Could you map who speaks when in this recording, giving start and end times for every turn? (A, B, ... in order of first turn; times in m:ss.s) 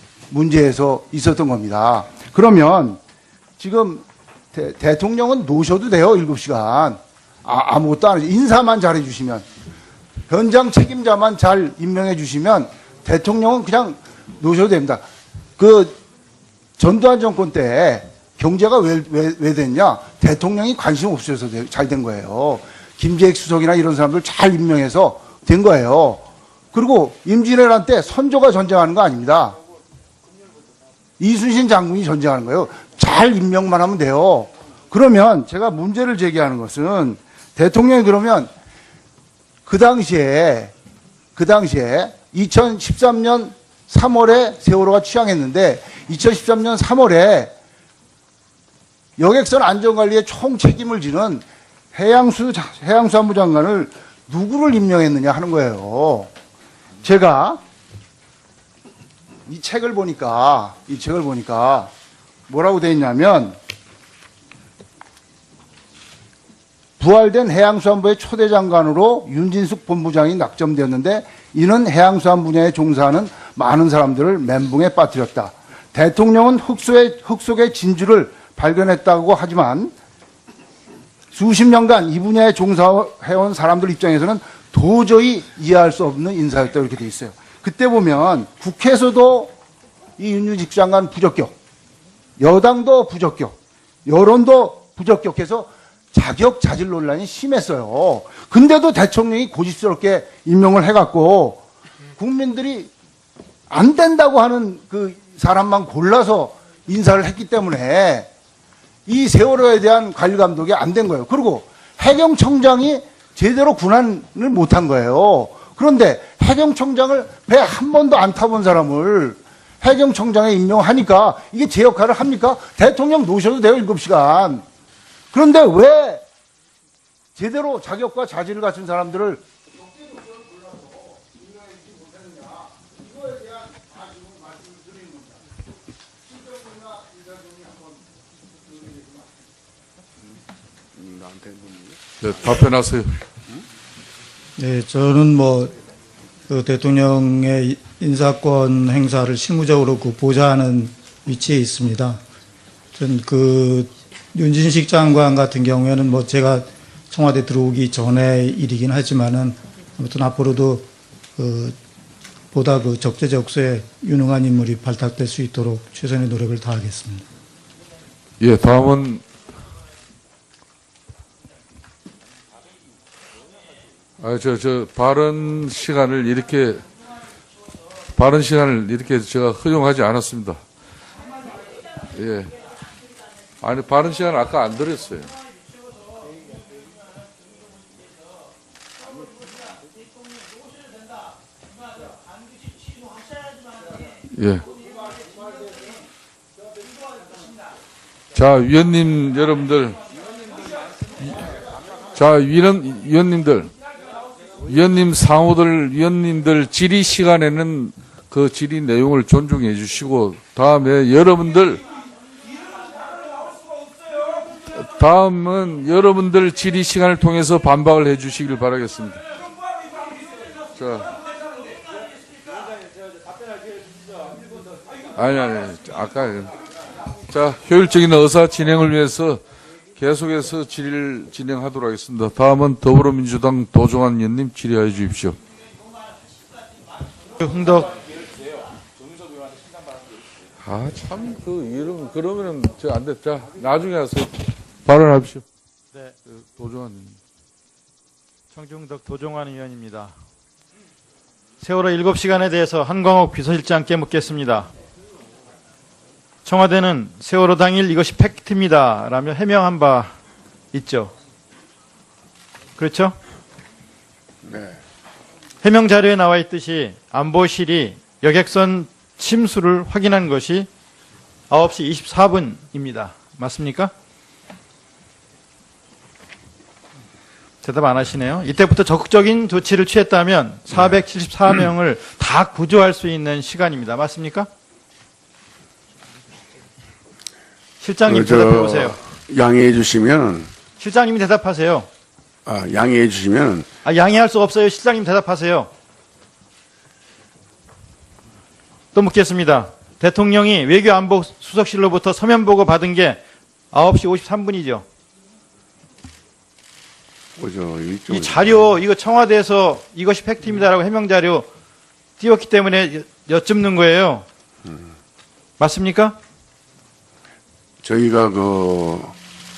0:00.3-0:03.0 A
0:03.6-0:09.4 A
0:10.3-0:15.0 A
0:15.6-0:16.0 A
0:16.8-0:29.6 A
0:31.2-0:38.5 A
0:39.6-0:40.7 A
0:41.4-0:47.5 A
0:49.2-0:56.3 A
0:57.0-0:57.6 A
0:59.4-1:01.9 A
1:02.5-1:03.6 A
1:07.0-1:19.9 A
1:21.3-1:29.5 A
1:30.2-1:31.5 A
1:32.4-1:41.6 A
1:42.2-1:42.9 A
1:43.7-1:48.3 A
1:49.1-2:04.6 A
2:05.3-2:06.2 A
2:07.4-2:09.4 A
2:10.1-2:15.2 A
2:16.5-2:17.5 A
2:21.0-2:22.0 B
2:22.2-2:23.2 C
2:24.6-2:25.7 D
2:26.5-2:32.2 D
2:32.9-2:41.8 D
2:42.5-2:47.2 D
2:48.4-2:49.2 C
2:54.2-2:56.8 C
2:58.2-3:00.6 C
3:02.1-3:02.5 C
3:03.6-3:05.4 C
3:14.3-3:14.7 C
3:18.3-3:20.0 C
3:21.2-3:21.5 C
3:22.1-3:23.7 C
3:24.6-3:31.8 C
3:34.7-3:39.2 C
3:40.7-3:41.2 C
3:45.1-3:46.6 C
3:47.3-3:49.4 C
3:50.0-3:55.4 C
3:57.4-3:58.0 E
4:00.6-4:05.4 C
4:06.3-4:07.2 C
4:08.5-4:10.1 E
4:11.6-4:14.7 E
4:16.4-4:20.1 E
4:20.7-4:21.1 E
4:22.8-4:23.2 E
4:24.4-4:24.8 B
4:25.6-4:30.7 E
4:31.5-4:33.9 E
4:37.6-4:44.5 E
4:47.8-4:49.0 E
4:48.0-4:50.5 B
4:50.8-4:51.9 E
4:52.4-4:53.7 B
4:53.8-4:55.7 E
4:58.9-5:03.2 E
5:03.7-5:04.8 E
5:07.4-5:08.8 B
5:08.1-5:11.5 E
5:12.2-5:14.2 E
5:15.6-5:16.2 E
5:17.8-5:19.1 B